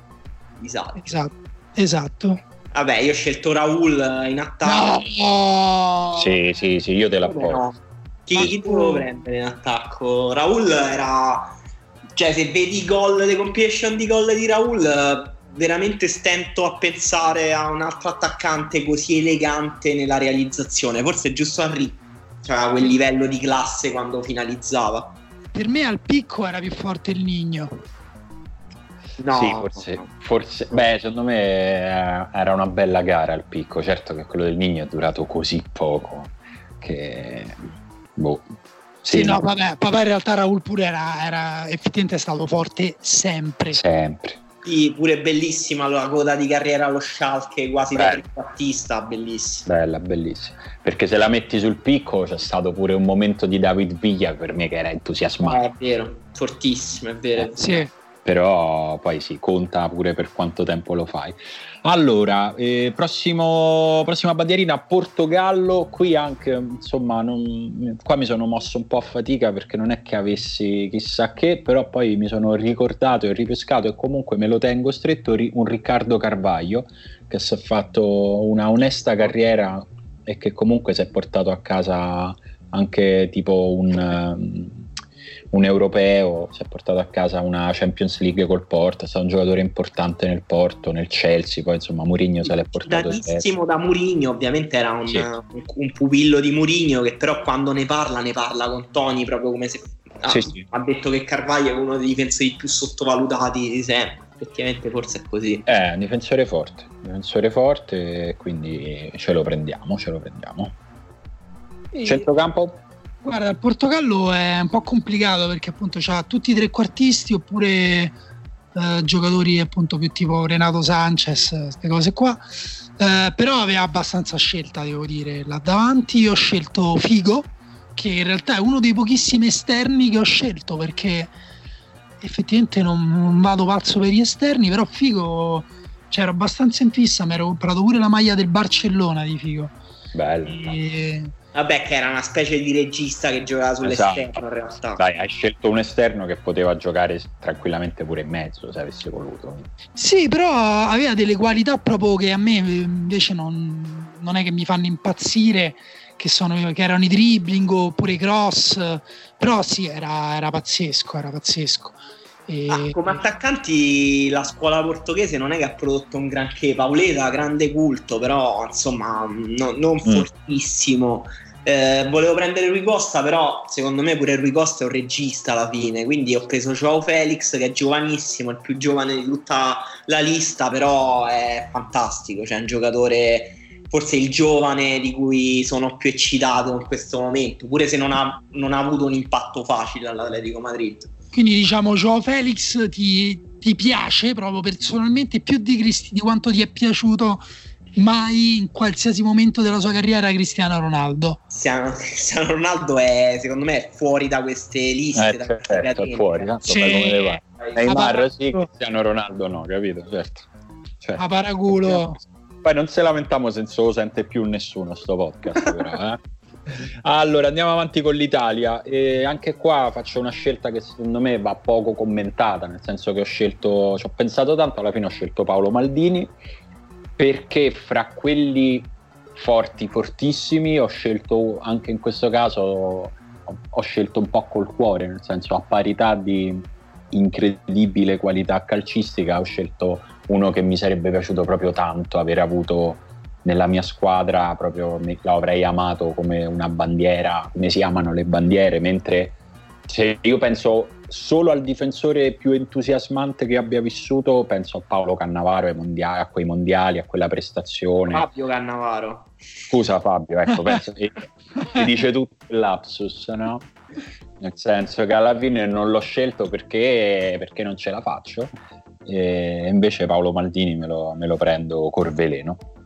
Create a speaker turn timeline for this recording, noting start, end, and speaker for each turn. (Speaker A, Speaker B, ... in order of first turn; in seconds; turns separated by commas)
Speaker A: 0.6-1.0, Speaker B: 1.0-2.4, Speaker A: 2.7-5.0, Speaker B: 4.6-6.3, Speaker C: 6.2-7.6, Speaker A: 7.2-11.5, Speaker B: 8.3-9.0, Speaker A: 12.2-25.1, Speaker B: 25.5-27.7, Speaker A: 29.2-30.1, Speaker C: 29.3-38.5, Speaker C: 39.0-39.4, Speaker B: 39.1-43.8, Speaker C: 43.7-44.4, Speaker A: 44.6-49.7, Speaker C: 48.0-48.2, Speaker C: 49.6-55.6, Speaker A: 55.4-57.9, Speaker B: 57.6-57.9, Speaker C: 58.2-84.9, Speaker C: 85.5-93.5, Speaker A: 92.5-105.7, Speaker C: 100.3-100.7, Speaker C: 105.7-110.8, Speaker B: 111.9-112.3, Speaker C: 112.0-112.8, Speaker B: 113.2-118.2, Speaker B: 118.7-131.3, Speaker B: 132.2-139.8, Speaker C: 140.1-140.8, Speaker B: 140.5-141.3, Speaker A: 141.5-145.0, Speaker C: 143.8-144.4, Speaker C: 145.0-149.7, Speaker B: 149.9-163.2, Speaker A: 162.7-191.1, Speaker B: 191.3-197.4, Speaker B: 197.9-201.4, Speaker A: 201.5-206.6, Speaker C: 205.1-210.5, Speaker B: 206.6-208.7, Speaker C: 211.0-226.3, Speaker B: 211.2-212.2, Speaker C: 227.2-258.3, Speaker A: 258.1-259.3, Speaker C: 259.7-263.7, Speaker C: 264.4-268.5, Speaker C: 269.0-272.6